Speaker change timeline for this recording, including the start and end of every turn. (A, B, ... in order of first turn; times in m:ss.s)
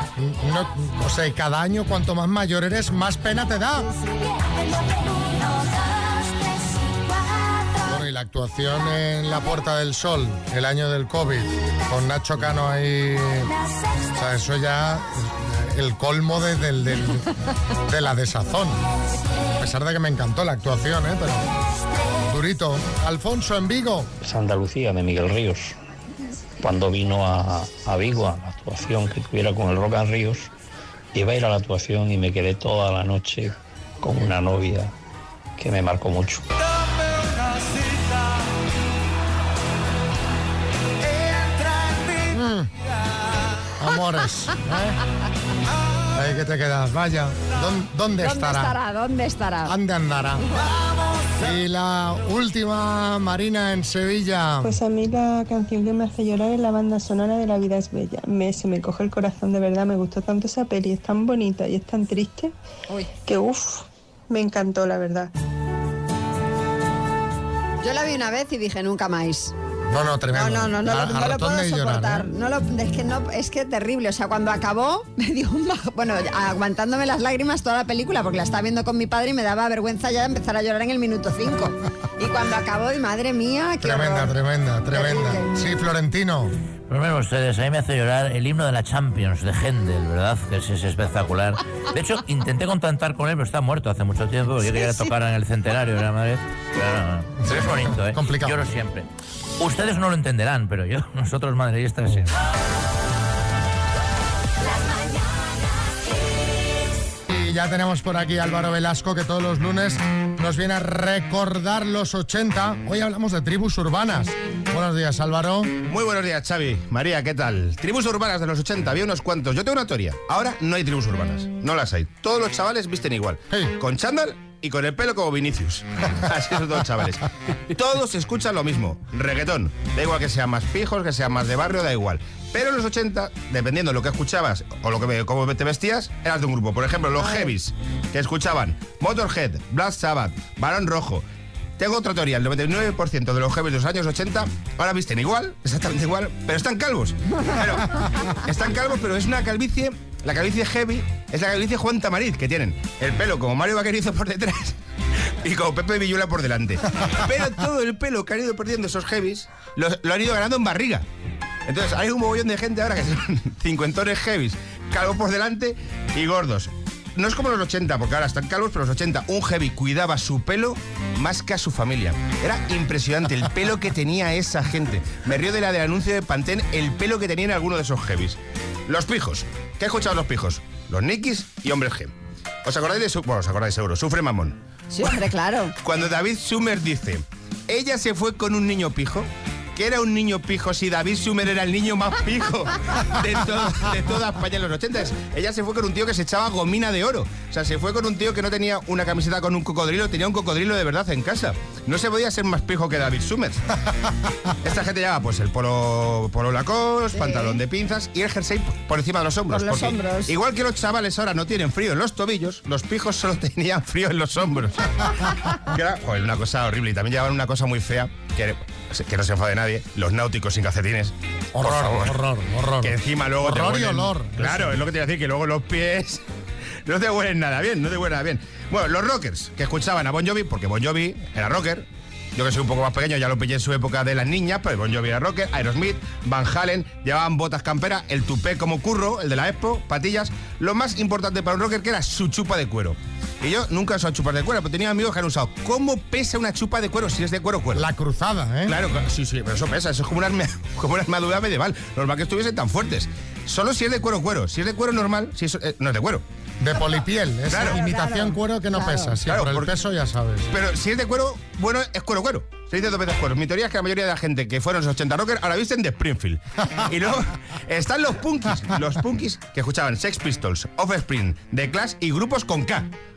0:00.2-0:03.9 A
0:07.8-0:13.6 A
0:14.1-0:17.3 A
0:17.8-0:18.8 A
0:19.6-0:21.5 A
0:22.2-0:24.1 A
0:24.2-0:25.7 B
0:26.6-0:30.5 B
0:31.1-0:34.9 B
0:35.6-0:36.4 B
0:42.3-0:42.7 A
0:43.8-0:45.0 A
0:46.1-0:48.7 A
0:48.2-0:49.7 C
0:49.6-0:50.4 A
0:51.4-0:54.8 A
0:54.6-1:02.5 D
1:03.3-1:05.3 D
1:07.8-1:09.5 C
1:09.9-1:12.3 A
1:10.3-1:24.3 C
1:23.8-1:26.5 A
1:24.9-1:25.5 C
1:26.9-1:39.1 E
1:34.8-1:35.1 C
1:37.4-1:38.7 A
1:39.6-1:42.3 E
1:47.3-1:55.7 A
1:55.8-2:21.2 F
2:17.2-2:17.5 C
2:21.8-2:34.8 F
2:35.4-2:41.0 F
2:41.6-3:02.1 F
3:02.6-3:04.6 F
3:04.9-3:05.7 C
3:05.8-3:23.6 F
3:24.6-3:42.1 F
3:27.1-3:27.6 C
3:29.5-3:30.4 C
3:41.5-3:44.8 A
3:42.8-3:46.2 F
3:46.8-4:07.9 F
4:07.7-4:08.8 A
4:08.6-4:16.2 F
4:16.6-4:20.5 A
4:17.5-4:17.8 F
4:17.6-4:19.2 C
4:19.2-4:19.7 F
4:20.5-4:32.9 F